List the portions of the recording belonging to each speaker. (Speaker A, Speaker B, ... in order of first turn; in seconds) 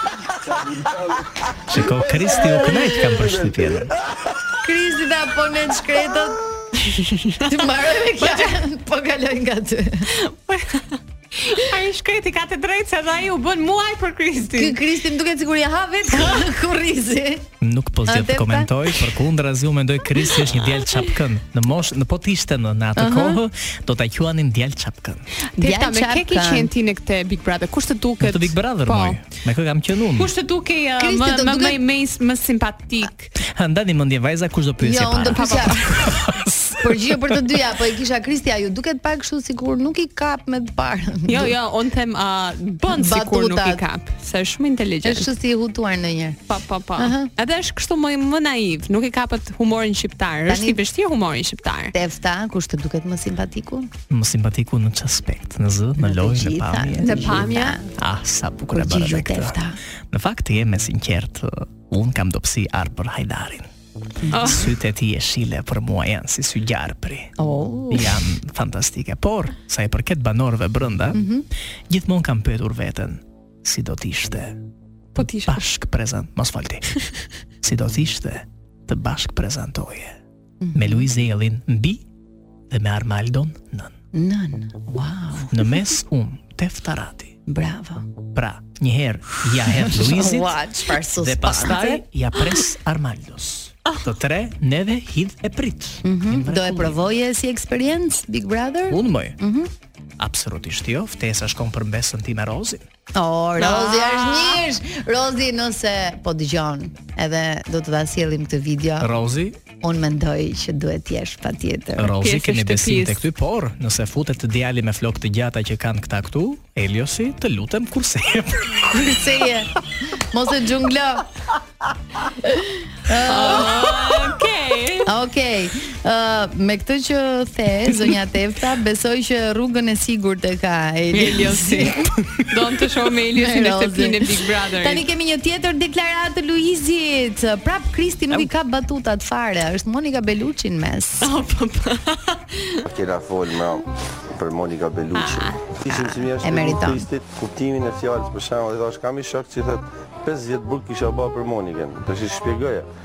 Speaker A: 0.5-4.5, 142.8-152.9
Speaker B: 1.7-3.9, 17.6-25.3, 28.2-30.3, 33.5-37.4, 54.1-57.4, 58.0-59.6, 60.1-63.7, 64.4-67.3, 67.9-71.2, 71.9-74.6, 75.3-77.0, 77.6-80.2, 80.7-82.0, 82.7-83.9, 85.5-87.4, 88.3-90.6, 91.2-97.0, 98.9-99.4, 100.2-102.8, 109.0-109.6, 112.0-118.9
Speaker C: 4.6-6.4, 7.4-10.1, 14.4-17.5, 18.1-18.7, 23.0-23.4, 25.6-26.7, 31.0-31.8, 34.8-36.1, 36.8-41.6, 42.9-43.8, 45.0-46.4, 47.0-47.3, 50.5-50.8, 51.9-53.9, 56.0-57.9, 58.7-59.8, 64.2-64.6, 71.1-71.5, 80.6-81.1, 84.1-85.7, 87.5-88.1, 89.8-92.0, 96.0-99.7, 103.2-109.1, 109.8-112.1, 118.9-121.3, 122.4-124.3, 125.0-132.1, 133.3-141.3, 145.9-147.1
Speaker D: 6.9-7.5, 8.2-8.5, 10.1-14.8, 25.6-29.2, 30.2-33.3, 35.4-35.9, 41.3-45.3, 46.5-51.9, 57.0-57.8, 64.3-64.7, 67.4-68.0, 75.2-75.6, 103.6-104.6, 112.1-113.2, 123.2-125.1, 131.1-135.1, 141.2-142.8, 145.2-145.6